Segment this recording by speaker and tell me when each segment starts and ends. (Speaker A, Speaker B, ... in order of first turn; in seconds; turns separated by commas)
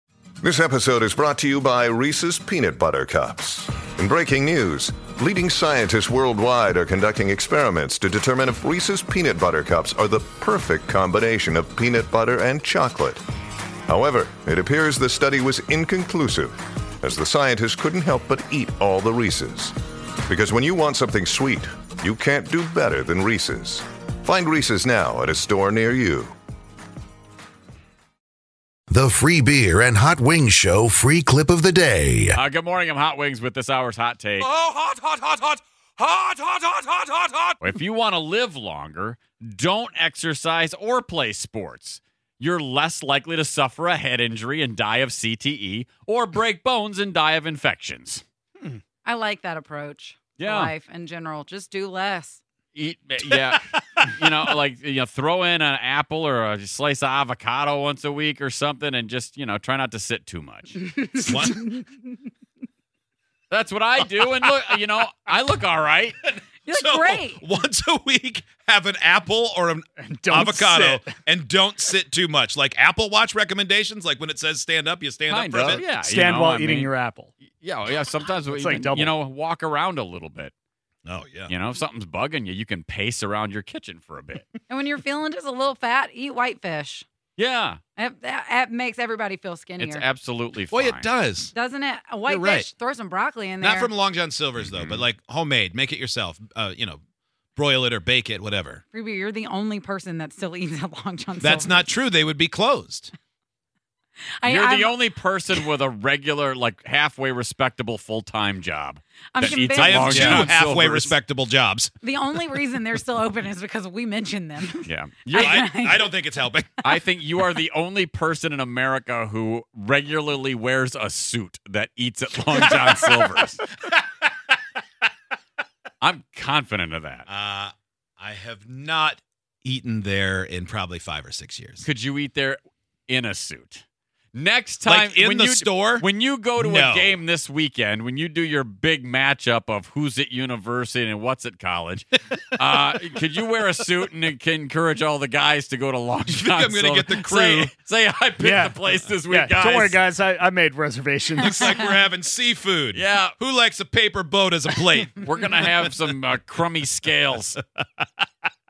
Speaker A: 0.4-13.2, Speaker A: 13.9-19.7, Speaker A: 20.2-26.3, Speaker B: 28.9-32.4, Speaker C: 32.3-34.5, Speaker D: 34.4-37.5, Speaker C: 37.6-48.2, Speaker E: 49.0-52.4, Speaker C: 50.4-50.7, Speaker C: 52.7-60.9, Speaker E: 60.8-61.9, Speaker D: 61.1-61.6, Speaker C: 63.5-66.2, Speaker D: 66.2-75.9, Speaker E: 66.7-67.4, Speaker F: 70.0-71.1, Speaker C: 75.3-80.5, Speaker F: 75.9-77.3, Speaker F: 78.5-79.1, Speaker D: 81.0-81.5, Speaker C: 81.5-84.5, Speaker E: 84.7-87.0, Speaker C: 87.4-87.8, Speaker E: 88.0-90.0, Speaker C: 89.8-91.1, Speaker D: 90.7-91.5, Speaker E: 91.5-93.9, Speaker D: 92.3-92.7, Speaker D: 93.6-97.0, Speaker C: 94.6-95.0, Speaker D: 97.5-98.8, Speaker E: 98.9-101.9, Speaker D: 101.4-103.1, Speaker E: 104.4-105.0, Speaker C: 104.5-111.2, Speaker E: 109.3-110.4, Speaker D: 109.7-111.9, Speaker E: 112.0-116.2, Speaker C: 114.8-115.7, Speaker D: 115.4-116.8, Speaker C: 116.8-123.7, Speaker D: 122.6-122.9, Speaker C: 126.0-127.3, Speaker D: 127.3-131.8, Speaker C: 131.8-150.0, Speaker D: 134.8-136.0, Speaker D: 136.6-137.2, Speaker D: 146.3-147.7, Speaker F: 148.4-151.6, Speaker D: 151.4-155.2, Speaker C: 151.5-151.9, Speaker C: 152.9-153.3, Speaker C: 155.0-157.6